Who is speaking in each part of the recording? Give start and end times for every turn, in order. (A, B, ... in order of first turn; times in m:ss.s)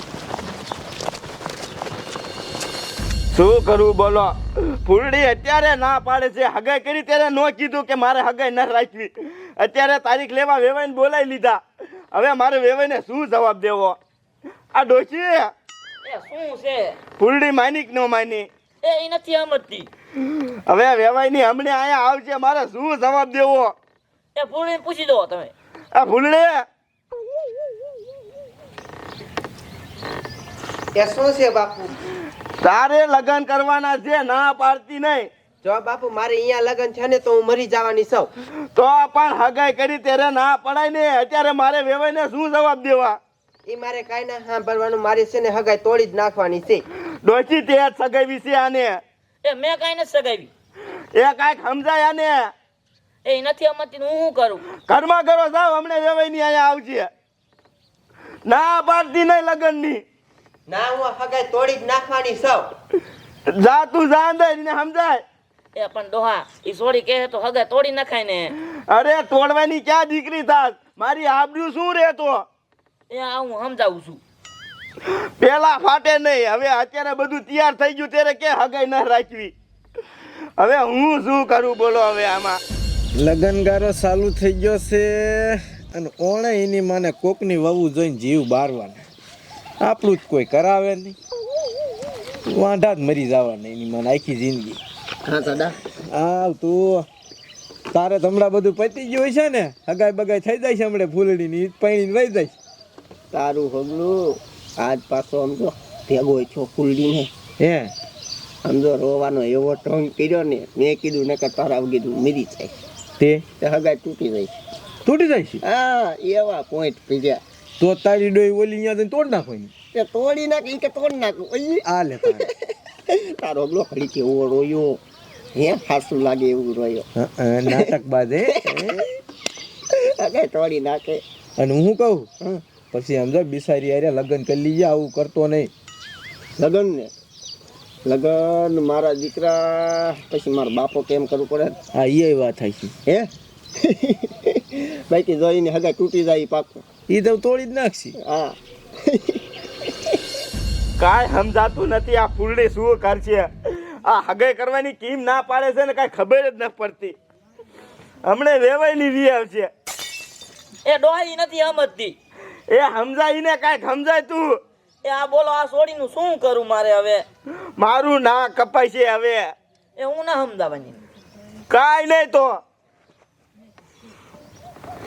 0:03.3-0:11.6 A
0:12.1-0:14.0 A
0:14.7-0:15.5 A
0:16.0-0:17.0 B
0:17.2-0:18.5 A
0:18.8-0:19.9 B
0:20.7-0:23.7 A
0:24.4-0:25.5 B
0:26.0-0:26.6 A
0:31.0-0:31.9 C
0:32.6-0:35.3 A
0:35.6-0:38.3 C
0:38.8-0:43.2 A
0:43.7-0:46.8 C
0:47.2-0:49.0 A
0:49.4-0:50.5 B
0:51.2-0:52.5 A
0:53.2-0:54.6 B
0:54.9-0:57.1 A
0:58.5-1:00.0 A
1:00.7-1:02.7 C
1:03.6-1:05.2 A
1:05.8-1:08.5 B
1:08.9-1:12.4 A
1:13.1-1:14.2 B
1:15.4-1:19.5 A
1:20.6-1:22.6 A
1:23.2-1:29.0 D
1:29.8-1:31.2 D
1:32.5-1:34.8 D
1:35.3-1:35.8 E
1:36.1-1:37.0 D
1:37.9-1:42.5 D
1:43.3-1:47.3 E
1:47.6-1:47.9 D
1:48.6-1:52.7 E
1:53.6-1:54.5 E
1:55.1-1:55.6 D
1:55.6-1:57.4 E
1:57.8-1:59.7 D
1:59.9-2:02.5 E
2:01.8-2:02.5 D
2:03.1-2:05.0 E
2:05.6-2:07.0 E
2:07.2-2:08.9 D
2:07.7-2:08.0 E
2:10.0-2:11.2 E
2:11.6-2:12.3 D
2:12.9-2:15.7 D
2:16.6-2:17.1 E
2:18.1-2:21.8 E
2:21.9-2:23.0 D
2:23.8-2:26.8 E
2:27.1-2:28.2 D
2:28.2-2:28.6 E
2:29.1-2:29.4 E
2:31.0-2:37.2 A
2:38.2-2:39.7 A
2:40.9-2:42.2 B
2:42.7-2:44.6 A
2:45.0-2:47.2 B
2:47.8-2:49.5 A
2:50.0-2:51.0 B
2:51.7-2:52.6 A